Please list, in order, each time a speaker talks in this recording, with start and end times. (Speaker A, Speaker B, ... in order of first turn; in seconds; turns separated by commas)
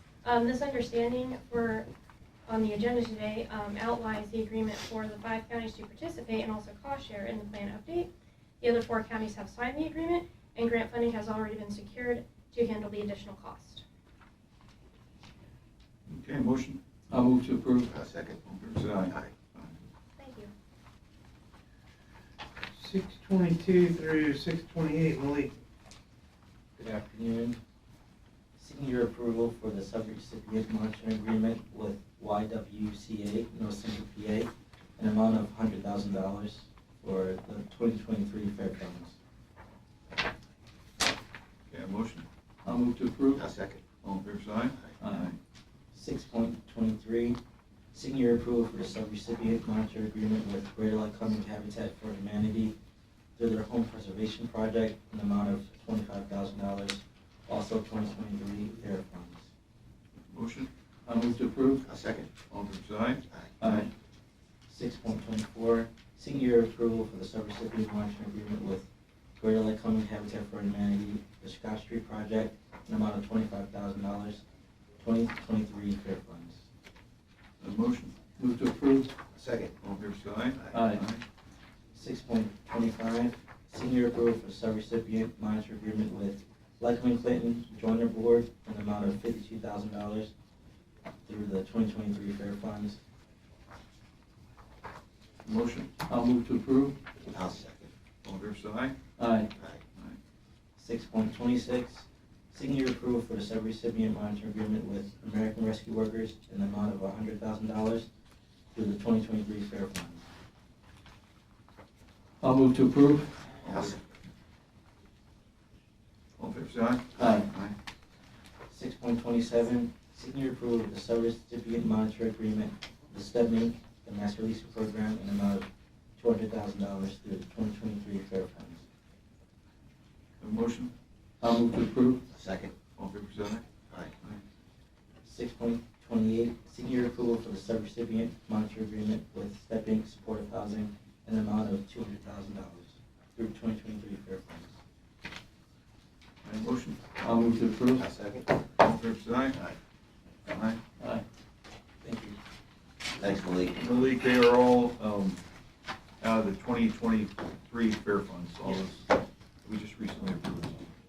Speaker A: 0.2-1.9, Speaker A: 2.5-13.8, Speaker B: 16.1-16.8, Speaker C: 17.1-17.9, Speaker D: 17.9-18.4, Speaker B: 18.4-19.8, Speaker A: 20.2-20.5, Speaker E: 22.8-25.5, Speaker F: 26.8-27.6, Speaker F: 28.6-39.2, Speaker B: 41.7-42.2, Speaker C: 42.6-43.5, Speaker D: 43.4-43.8, Speaker B: 44.0-45.4, Speaker C: 45.0-45.3, Speaker F: 45.9-47.4, Speaker F: 47.9-52.7, Speaker F: 53.4-59.5, Speaker B: 60.3-60.7, Speaker C: 61.1-61.8, Speaker D: 61.9-62.3, Speaker B: 62.5-63.9, Speaker C: 63.6-63.9, Speaker F: 64.7-74.4, Speaker F: 75.0-76.6, Speaker B: 77.6-78.2, Speaker C: 78.4-79.1, Speaker D: 79.3-79.7, Speaker B: 79.8-81.2, Speaker C: 80.7-81.0, Speaker F: 81.9-90.3, Speaker F: 91.3-93.0, Speaker B: 95.4-95.9, Speaker C: 96.1-97.0, Speaker D: 97.3-97.9, Speaker B: 98.2-99.0, Speaker C: 99.2-99.5, Speaker F: 100.8-108.1, Speaker F: 108.7-110.2, Speaker C: 112.4-113.5, Speaker D: 113.6-114.0, Speaker B: 116.4-117.8, Speaker C: 117.2-117.5, Speaker F: 118.7-125.7, Speaker F: 126.2-128.8, Speaker B: 130.4-130.9, Speaker C: 131.4-132.2, Speaker D: 132.3-132.7, Speaker B: 133.0-133.7, Speaker F: 135.2-144.8, Speaker B: 146.4-147.1, Speaker C: 147.2-148.1, Speaker D: 148.0-148.5, Speaker B: 148.8-149.7, Speaker B: 150.5-150.8, Speaker C: 151.0-151.2, Speaker F: 152.0-152.4, Speaker D: 153.2-153.7, Speaker B: 153.7-155.4, Speaker B: 156.2-159.1, Speaker B: 159.6-160.8